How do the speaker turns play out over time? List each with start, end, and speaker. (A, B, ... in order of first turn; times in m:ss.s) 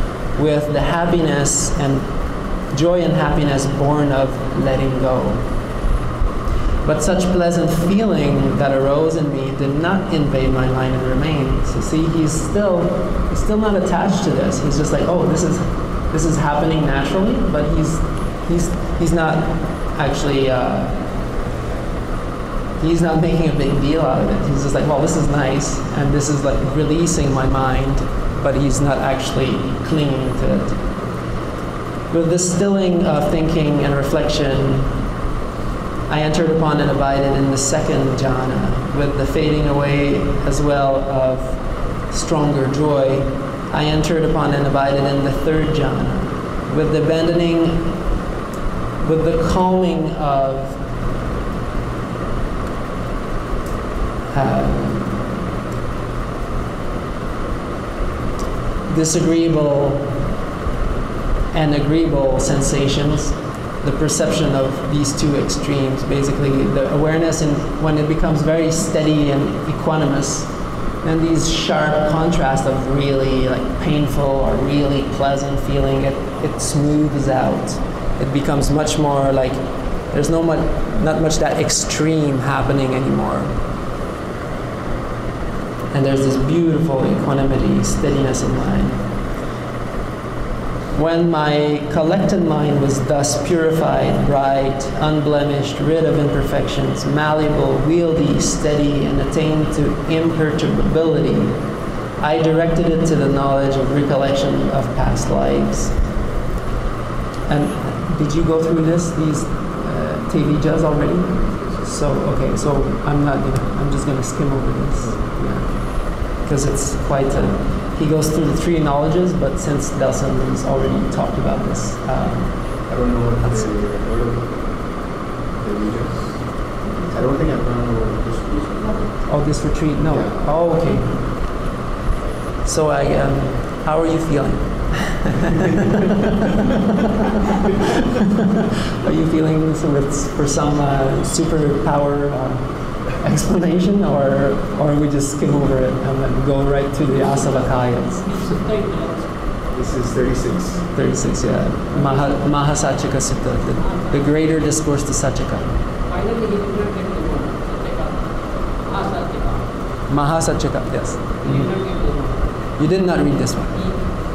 0:00.4-0:02.1 A
0:02.7-0:05.4 A
0:06.8-0:21.0 A
0:22.8-0:30.8 A
0:32.1-0:34.9 A
0:36.1-0:41.6 A
0:42.1-0:48.0 A
0:49.0-0:50.8 A
0:54.3-0:55.4 A
0:58.9-1:00.2 A
1:01.5-1:10.5 A
1:11.0-1:19.6 A
1:20.1-1:23.5 A
1:25.9-1:29.0 A
1:30.9-1:41.6 A
1:42.2-1:45.9 A
1:47.5-2:02.5 A
2:02.9-2:04.7 B
2:05.6-2:09.1 B
2:09.2-2:11.2 A
2:10.1-2:10.5 B
2:12.6-2:17.2 A
2:18.4-2:28.3 A
2:28.2-2:29.2 C
2:29.7-2:30.9 B
2:30.9-2:35.7 A
2:33.8-2:34.1 C
2:36.1-2:38.2 C
2:38.8-2:39.6 C
2:40.1-2:41.7 A
2:41.4-2:42.4 C
2:42.8-2:43.8 A